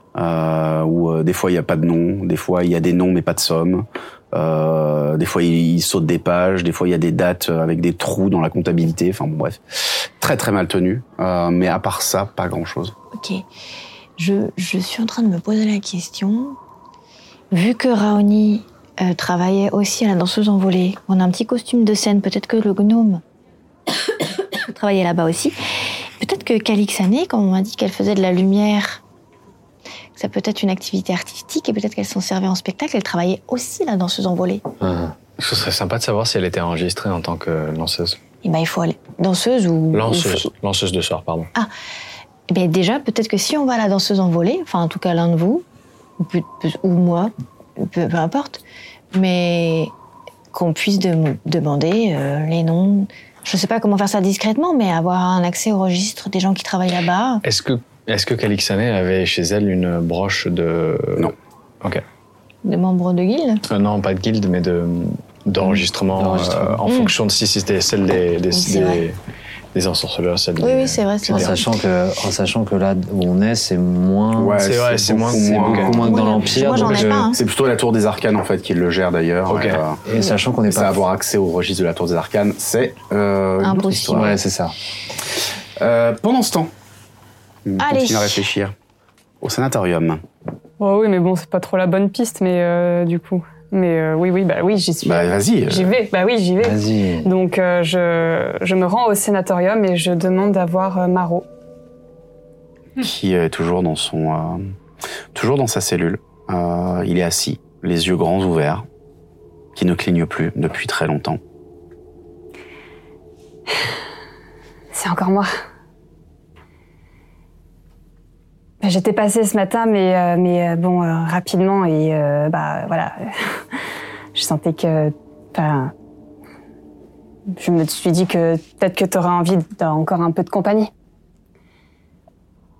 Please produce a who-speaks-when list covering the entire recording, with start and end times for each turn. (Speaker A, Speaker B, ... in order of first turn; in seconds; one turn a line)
Speaker A: 0.1-12.9
Speaker B: 13.1-13.4
Speaker B: 14.2-16.6
Speaker B: 17.5-23.2
Speaker B: 24.6-29.0
Speaker B: 30.1-34.6
Speaker C: 34.8-35.1
Speaker D: 35.4-38.2
Speaker B: 38.4-40.5
Speaker D: 39.9-41.5
Speaker B: 42.5-45.6
Speaker B: 46.2-48.6
Speaker B: 49.1-49.9
Speaker B: 50.5-57.4
Speaker D: 57.4-62.0
Speaker B: 62.6-63.6
Speaker D: 63.6-69.2
Speaker C: 65.6-66.8
Speaker B: 66.8-67.1
Speaker B: 68.5-69.0
Speaker D: 69.7-71.5
Speaker B: 70.6-71.6
Speaker C: 71.3-74.6
Speaker A: 74.3-80.0
Speaker D: 74.6-76.1
Speaker C: 75.2-77.3
Speaker B: 75.9-77.4
Speaker D: 79.5-79.8
Speaker C: 80.0-81.0
Speaker A: 80.7-84.3
Speaker B: 83.6-84.4
Speaker C: 84.1-84.7
Speaker A: 85.8-86.7
Speaker A: 87.7-88.7
Speaker B: 87.8-88.5
Speaker A: 89.4-90.2
Speaker E: 90.8-101.5
Speaker A: 95.0-96.0
Speaker C: 96.6-97.3
Speaker A: 103.0-104.7
Speaker A: 105.3-108.8
Speaker A: 109.7-111.4
Speaker E: 114.9-115.5
Speaker E: 118.8-123.6
Speaker E: 124.3-125.9
Speaker E: 127.5-130.9